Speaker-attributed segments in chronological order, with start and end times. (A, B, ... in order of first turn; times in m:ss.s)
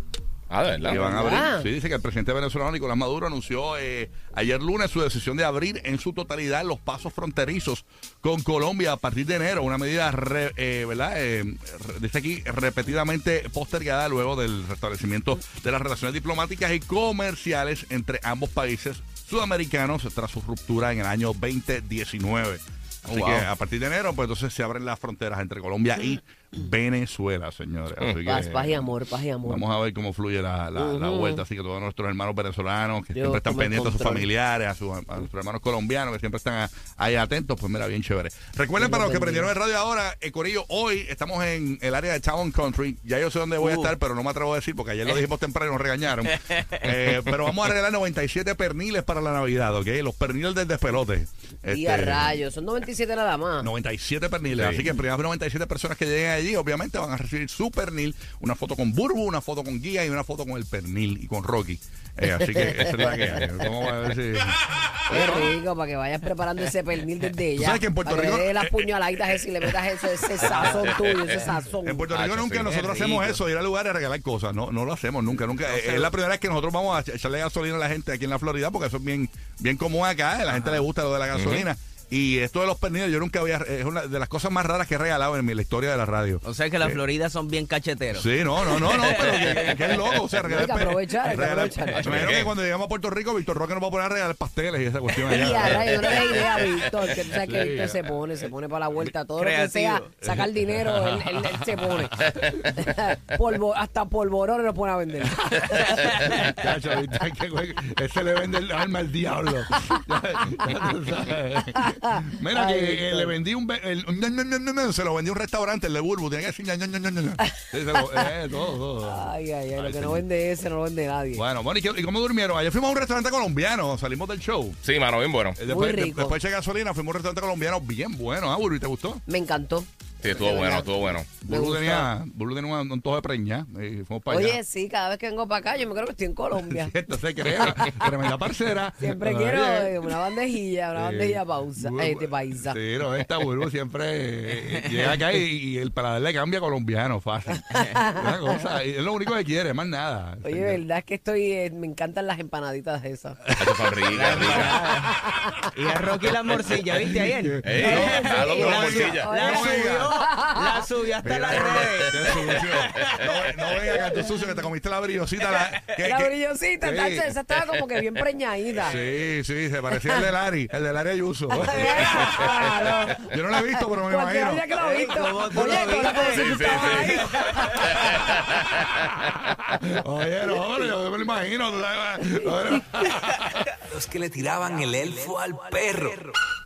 0:00.5-0:01.2 A
0:00.8-0:52.4 B
0:00.9-0:01.7 C
0:23.1-0:23.5 A
0:28.2-0:29.6 C
0:30.8-0:31.4 C
0:33.2-0:34.3 C
0:38.8-0:39.5 C
0:43.6-0:43.9 D
0:46.3-0:46.8 D
0:51.7-0:53.7 C
0:53.6-1:05.5 B
0:54.5-0:55.0 A
1:02.6-1:03.4 C
1:05.1-1:12.1 C
1:07.6-1:09.4 B
1:10.4-1:10.8 B
1:10.6-1:11.2 A
1:11.8-1:27.0 B
1:12.1-1:13.4 A
1:15.5-1:16.1 D
1:20.5-1:20.8 D
1:21.3-1:21.7 A
1:26.4-1:29.5 D
1:28.1-1:36.6 B
1:28.8-1:30.1 A
1:30.5-1:32.2 C
1:31.9-1:32.5 A
1:35.1-1:46.4 C
1:37.4-1:38.2 B
1:39.4-1:40.1 D
1:40.2-1:42.8 B
1:46.1-2:00.2 B
1:51.8-1:53.4 C
1:58.0-1:58.3 C
1:59.1-2:01.4 C
2:01.3-2:04.8 B
2:04.8-2:05.6 A
2:05.6-2:09.2 B
2:05.7-2:06.4 C
2:09.3-2:12.1 C
2:10.2-2:11.4 A
2:11.4-2:14.6 B
2:14.3-2:16.9 C
2:16.6-2:20.1 B
2:19.0-2:22.8 C
2:21.0-2:30.8 B
2:24.6-2:25.3 D
2:27.8-2:28.6 C
2:30.4-2:33.5 C
2:33.5-2:34.7 B
2:33.6-2:34.7 A
2:34.1-2:35.1 D
2:34.9-2:35.7 C
2:35.7-2:43.2 D
2:37.2-2:40.1 B
2:37.6-2:39.4 A
2:37.9-2:40.8 C
2:41.2-2:47.3 B
2:43.8-2:44.5 C
2:46.0-2:49.0 C
2:48.8-2:54.7 B
2:49.9-2:50.3 C
2:51.5-2:58.1 C
2:54.8-2:57.9 D
2:55.5-2:56.3 B
2:56.3-2:59.3 A
2:59.8-3:03.4 B
3:03.9-3:06.4 E